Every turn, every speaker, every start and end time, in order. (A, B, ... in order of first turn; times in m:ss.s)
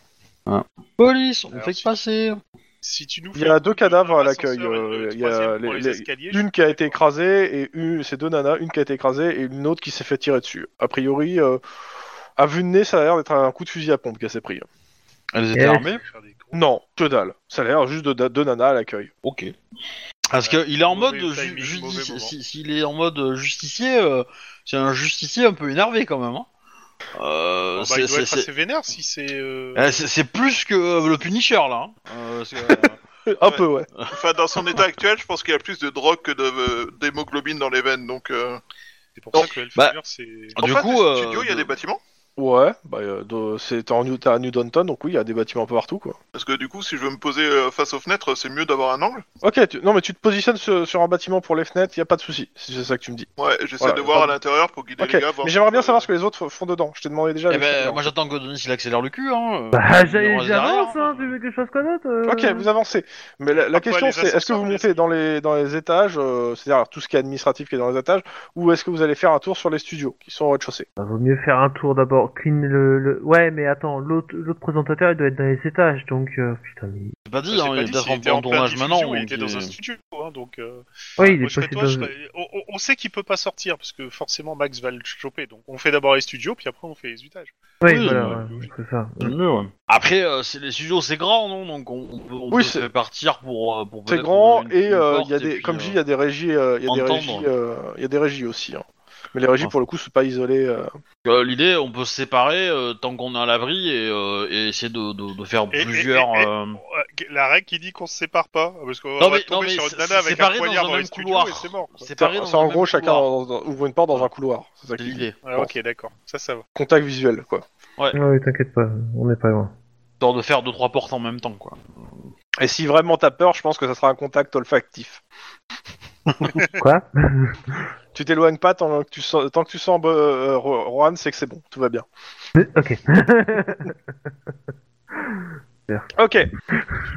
0:00.5-0:02.4 A
0:01.5-0:01.9 B
0:02.8-0:07.0 B
0:03.3-0:11.6 C
0:12.4-0:14.6 C
0:15.3-0:16.0 A
0:15.5-0:15.8 D
0:15.7-0:16.6 B
0:16.5-0:19.1 C
0:19.2-0:19.5 A
0:20.3-0:26.5 A
0:20.4-0:22.3 B
0:27.1-0:28.5 A
0:27.7-0:29.9 B
0:29.7-0:33.0 A
0:33.3-0:33.9 C
0:33.5-0:38.6 E
0:39.2-0:40.6 B
0:39.3-0:39.9 A
0:40.6-0:42.0 E
0:40.6-0:41.7 A
0:42.4-0:46.2 C
0:46.3-0:49.2 E
0:49.4-0:53.3 C
0:53.4-0:56.1 E
0:53.8-0:54.3 C
0:55.0-0:58.1 C
0:57.5-1:01.3 A
0:59.7-1:02.7 D
1:02.2-1:10.8 C
1:03.6-1:05.0 B
1:11.0-1:17.2 D
1:17.2-1:19.7 A
1:17.5-1:28.7 B
1:21.2-1:22.1 D
1:27.8-1:29.3 D
1:27.8-1:28.5 A
1:29.2-1:36.0 A
1:32.5-1:32.8 C
1:34.1-1:40.9 C
1:36.8-1:37.5 A
1:41.2-1:46.8 A
1:45.7-1:52.1 B
1:49.2-1:53.3 A
1:52.2-1:55.7 C
1:55.0-1:55.4 A
1:55.4-1:56.6 B
1:56.7-1:57.6 C
1:58.1-1:59.7 D
2:00.2-2:02.3 A
2:02.6-2:05.2 C
2:06.8-2:07.8 D
2:08.1-2:12.0 C
2:12.6-2:14.0 D
2:15.3-2:16.1 D
2:16.1-2:16.5 C